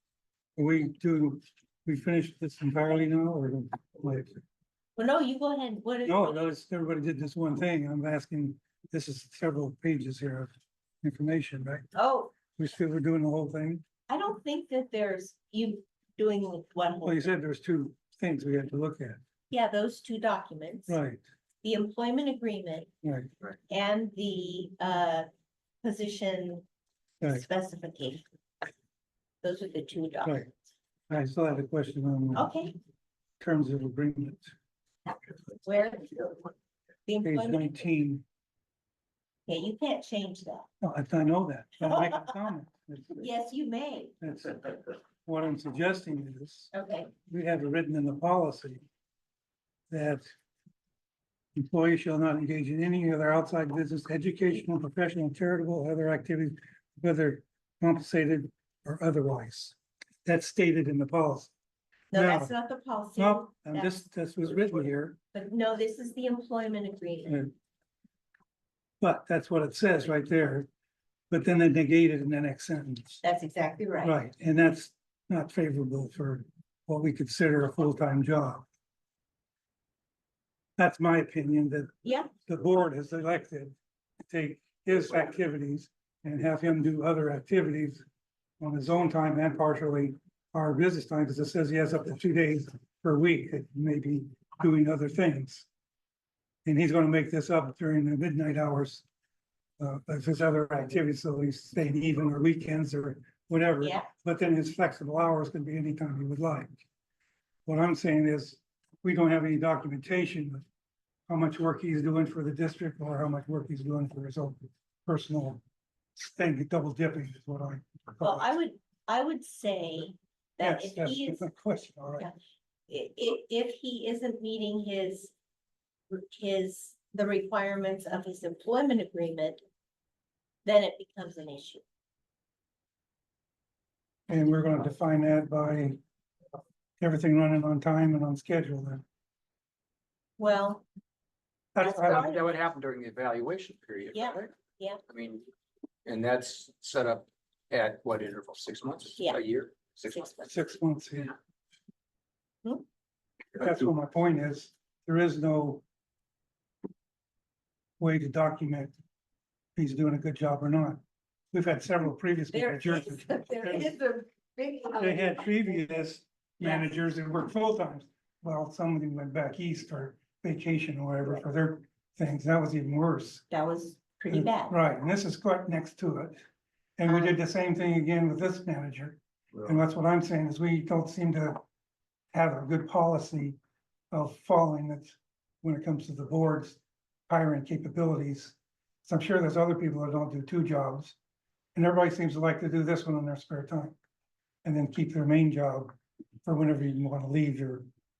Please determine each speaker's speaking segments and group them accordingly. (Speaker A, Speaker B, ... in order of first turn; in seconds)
Speaker A: 0.6-4.4, 6.0-10.5, 11.0-11.9, 12.6-13.8, 17.0-19.2, 20.9-21.2, 23.0-23.3, 31.1-32.5, 33.4-34.5, 37.2-38.2, 40.8-43.3, 44.2-46.7, 47.3-48.8, 49.9-50.3, 51.6-61.5, 62.1-62.5, 63.2-65.2, 67.3-67.5, 69.0-70.7, 71.3-73.2, 74.0-78.7, 80.8-81.9, 82.5-83.8, 84.3-88.0, 88.6-95.7, 96.7-99.0, 99.8-106.8, 107.7-110.6, 111.3-115.6, 116.2-118.5, 120.6-122.3, 134.3-136.0, 137.0-139.0, 141.8-142.3, 150.4-151.3, 153.6-155.8, 158.0-158.9, 159.8-161.0, 161.5-163.9, 165.0-173.4, 174.3-176.4, 177.0-181.6, 182.3-183.6, 184.1-191.2, 191.8-193.9, 194.6-195.9, 196.4-197.9
Speaker B: 5.0-6.5, 11.9-12.3, 14.1-17.3, 19.5-21.0, 21.6-22.9, 23.7-25.3, 25.8-26.6, 27.3-28.2, 29.4-30.4, 32.4-32.8, 35.6-36.4, 37.1-37.7, 39.5-40.7, 41.8-42.4, 43.2-44.1, 46.7-47.1, 62.1-64.0, 65.3-67.4, 73.2-74.2, 82.0-82.3, 103.8-104.1, 118.2-121.5, 122.9-125.3, 126.1-129.6, 130.7-131.8, 140.4-140.8, 141.8-142.6, 144.1-145.0, 150.1-150.4, 162.5-165.5, 166.6-166.9, 173.5-174.8, 177.1-177.3
Speaker C: 141.8-144.5, 145.1-145.4, 146.1-150.4